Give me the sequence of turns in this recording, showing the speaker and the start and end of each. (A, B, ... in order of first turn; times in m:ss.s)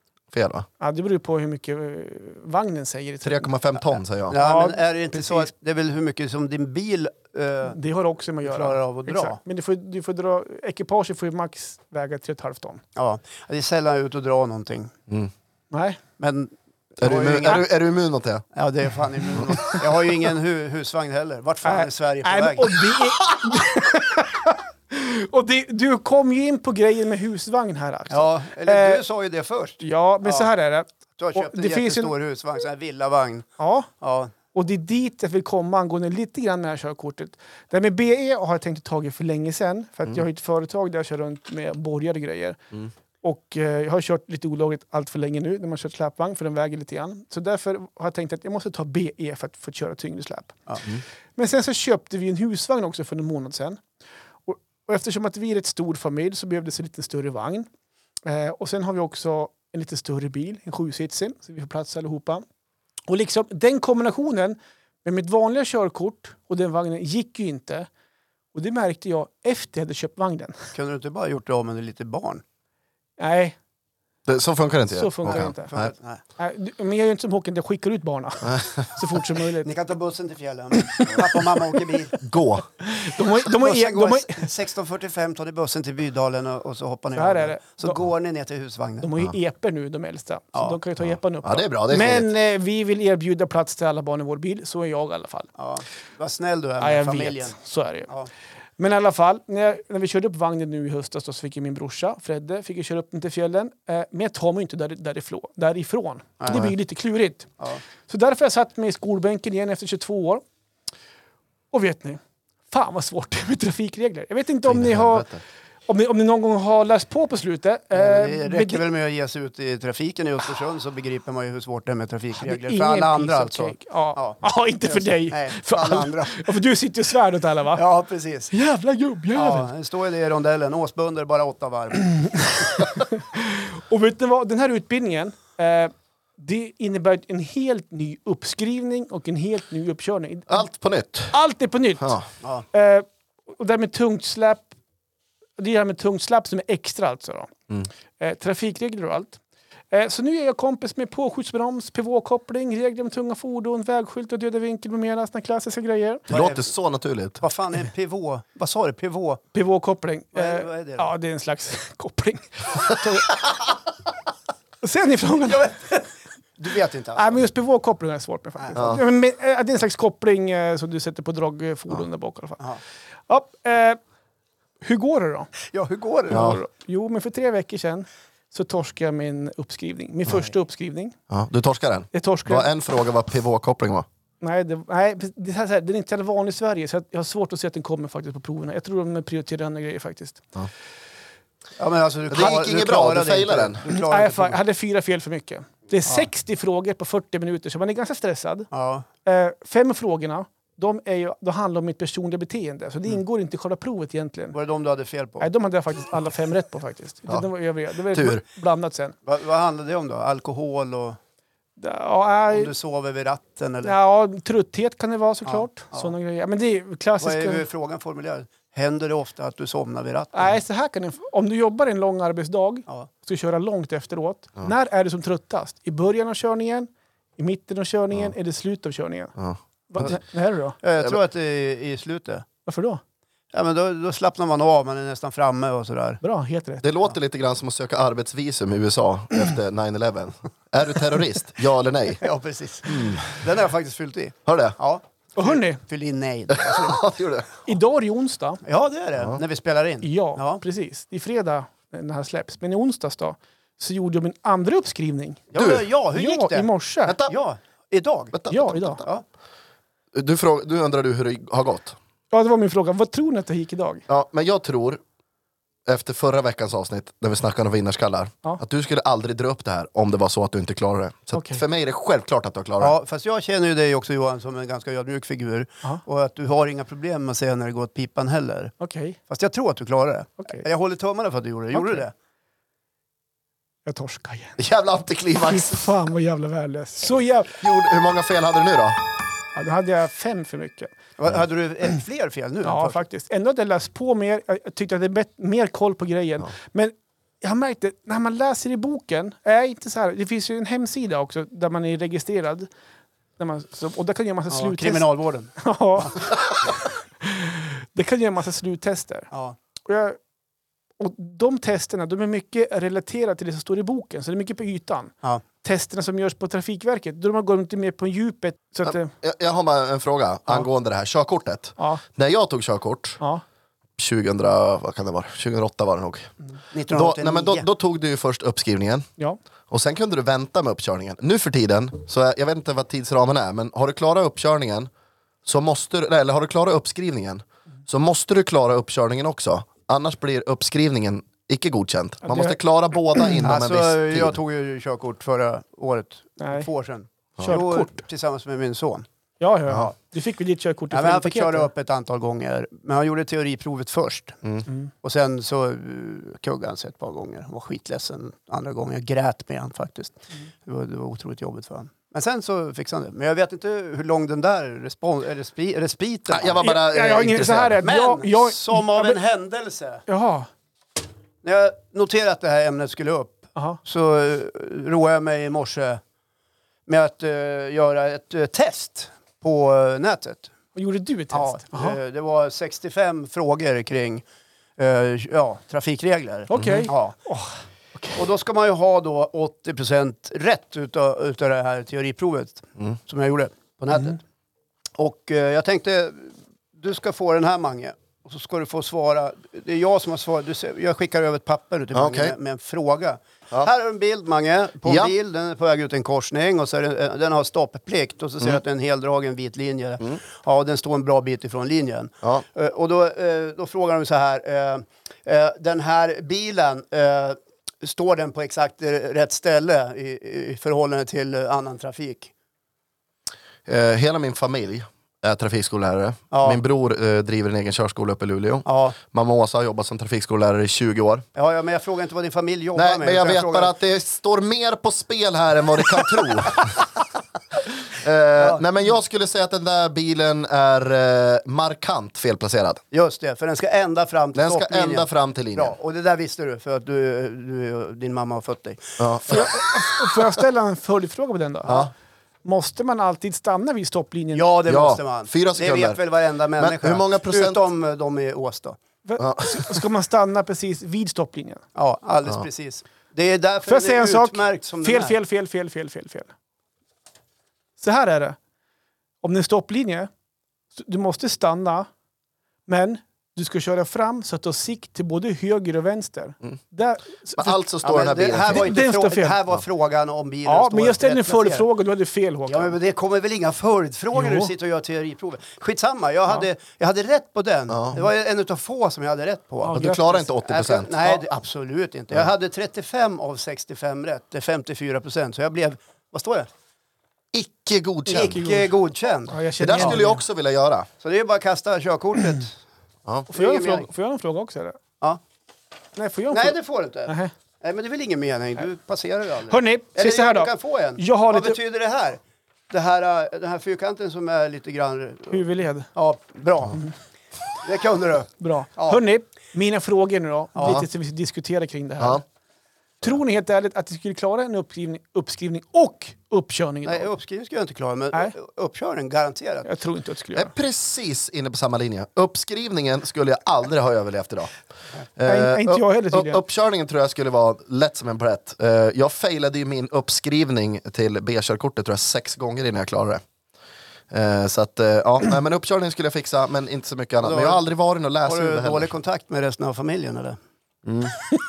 0:00.3-0:00.6 A
0:00.8-0:03.5 B
0:03.2-0:04.4 A
0:04.3-0:07.8 C
0:04.3-0:05.5 B
0:07.6-0:12.8 B
0:08.4-0:09.4 C
0:13.0-0:14.9 C
0:15.7-0:16.0 B
0:16.2-0:17.7 C
0:17.0-0:18.4 A
0:18.5-0:22.9 C
0:21.6-0:29.0 B
0:28.1-0:30.5 C
0:29.8-0:32.1 B
0:31.2-0:33.5 C
0:33.6-0:33.9 B
0:34.0-0:34.3 C
0:34.5-0:42.6 B
0:43.2-0:50.6 B
0:51.4-0:53.8 B
0:54.4-0:57.7 B
0:58.2-1:02.4 B
1:03.1-1:07.9 B
1:08.5-1:10.6 B
1:10.7-1:12.4 C
1:13.2-1:13.6 B
1:14.3-1:15.9 A
1:14.9-1:15.8 B
1:15.3-1:16.2 C
1:16.4-1:19.7 B
1:19.6-1:22.2 C
1:20.8-1:21.4 B
1:22.2-1:22.6 A
1:22.8-1:24.5 B
1:23.4-1:29.1 C
1:27.2-1:28.0 B
1:29.0-1:35.5 B
1:31.0-1:32.3 A
1:35.6-1:37.6 C
1:36.8-1:38.1 B
1:38.8-1:47.5 B
1:48.0-1:50.4 B
1:51.7-1:55.3 B
1:54.7-1:55.4 A
1:55.9-1:58.8 B
1:57.9-2:06.4 C
2:02.4-2:07.8 B
2:07.7-2:08.5 C
2:08.5-2:09.7 B
2:09.3-2:12.3 C
2:11.9-2:20.7 B
2:20.5-2:21.3 A
2:21.3-2:22.2 B
2:22.0-2:22.2 A
2:22.7-2:24.7 B
2:25.6-2:27.5 B
2:28.2-2:36.3 B
2:36.3-2:36.6 C
2:36.3-2:37.4 A
2:37.4-2:39.4 C
2:39.5-2:43.3 B
2:40.3-2:41.1 C
2:44.8-2:45.7 B
2:45.5-2:46.0 C
2:46.6-2:47.4 C
2:47.1-2:52.6 B
2:48.7-2:49.0 A
2:53.3-2:54.0 B
2:54.8-2:55.5 B
2:55.7-2:56.5 C
2:56.3-3:01.2 B
2:56.3-2:56.6 A
3:01.3-3:04.0 A
3:02.1-3:02.7 B
3:04.4-3:10.4 B
3:11.8-3:14.6 C
3:12.3-3:13.8 A
3:13.9-3:18.7 B
3:18.7-3:19.0 C
3:19.2-3:24.6 B
3:24.5-3:25.5 C
3:25.4-3:29.1 B
3:28.1-3:28.4 A
3:29.3-3:31.2 C
3:31.8-3:32.7 B
3:32.5-3:34.0 C
3:33.8-3:37.6 B
3:35.4-3:36.1 C
3:37.2-3:40.6 C
3:40.3-3:49.3 B
3:49.4-3:50.1 A
3:49.9-3:50.8 B
3:50.8-3:52.4 C
3:52.6-3:53.0 B
3:53.5-3:56.2 C
3:56.2-3:56.9 B
3:56.8-4:02.2 A
4:02.2-4:07.1 C
4:02.9-4:03.4 A
4:04.4-4:04.8 A
4:05.4-4:05.8 B
4:06.5-4:07.5 A
4:07.6-4:08.6 B
4:08.6-4:10.6 C
4:10.0-4:15.5 B
4:15.5-4:16.7 C
4:15.6-4:15.9 A
4:16.1-4:17.2 B
4:17.0-4:17.3 A
4:17.3-4:18.4 C
4:18.3-4:19.1 A
4:18.5-4:19.0 B
4:20.1-4:22.0 A
4:22.3-4:24.0 B
4:24.1-4:25.0 A
4:25.9-4:33.0 A
4:31.3-4:31.6 B
4:32.8-4:38.7 C
4:38.8-4:39.2 B
4:39.3-4:42.1 C
4:40.4-4:40.6 B
4:41.7-4:42.0 B
4:43.9-4:44.6 B
4:44.6-4:45.9 A
4:45.3-4:47.6 B
4:47.6-4:49.0 A
4:49.6-4:50.9 B
4:51.2-4:53.0 C
4:52.6-5:02.7 B
5:03.4-5:09.3 B
5:04.5-5:06.2 C
5:09.3-5:09.6 C
5:09.9-5:10.2 B
5:11.0-5:19.1 B
5:18.9-5:23.2 A
5:21.8-5:22.0 B
5:24.0-5:26.3 A
5:26.7-5:27.6 C
5:26.9-5:29.0 A
5:29.7-5:34.9 A
5:35.4-5:44.4 A
5:42.2-5:42.6 B
5:43.4-5:49.0 C
5:46.4-5:46.7 B
5:47.4-5:48.0 B
5:49.4-5:51.7 B
5:50.9-5:54.4 C
5:55.0-6:06.6 C
6:06.3-6:07.8 A
6:06.6-6:09.2 B
6:07.8-6:10.0 C
6:10.1-6:10.5 B
6:11.4-6:16.0 C
6:16.9-6:20.5 C
6:20.7-6:22.0 B
6:21.3-6:24.2 C
6:24.8-6:27.2 C
6:26.5-6:28.2 B
6:26.5-6:26.9 A
6:28.2-6:34.2 C
6:35.0-7:02.3 C
6:41.9-6:42.3 A
6:44.8-6:45.1 A
7:03.7-7:11.2 A
7:06.3-7:06.6 C
7:08.6-7:09.0 C
7:11.3-7:13.7 C
7:12.7-7:16.8 A
7:17.9-7:22.8 A
7:18.4-7:18.6 C
7:22.9-7:29.4 C
7:24.3-7:25.7 A
7:29.0-7:29.6 A
7:29.3-7:31.8 B
7:31.6-7:31.9 A
7:32.4-7:34.5 B
7:34.3-7:38.8 C
7:34.7-7:36.0 A
7:36.6-7:37.6 A
7:39.0-7:41.6 B
7:39.2-7:39.8 A
7:41.7-7:45.1 C
7:43.6-7:46.3 B
7:47.8-7:48.4 B
7:49.2-7:50.1 B
7:50.7-7:51.9 B
7:52.7-7:57.6 B
7:57.4-7:58.7 A
7:57.8-8:01.7 C
7:58.5-7:59.4 B
8:00.4-8:02.7 B
8:02.5-8:09.8 C
8:04.1-8:04.5 B
8:07.7-8:08.0 A
8:09.6-8:10.3 B
8:09.7-8:11.2 A
8:10.4-8:16.5 C
8:17.3-8:18.5 A
8:18.0-8:18.7 B
8:18.1-8:20.0 C
8:19.3-8:20.2 B
8:19.6-8:20.9 A
8:21.0-8:22.6 C
8:23.3-8:23.9 C
8:23.3-8:24.8 B
8:26.0-8:27.3 B
8:26.3-8:35.4 C
8:29.5-8:31.6 B
8:35.3-8:35.9 B
8:36.0-8:36.8 C
8:37.6-8:39.0 C
8:38.4-8:42.2 B
8:40.6-8:40.8 C
8:43.0-8:47.1 B
8:46.8-8:49.7 C
8:49.6-8:50.5 B
8:50.3-8:54.5 A
8:55.2-9:03.2 A
8:55.2-8:56.4 B
9:04.1-9:08.9 A
9:07.2-9:07.6 C
9:08.3-9:10.4 C
9:10.8-9:11.1 A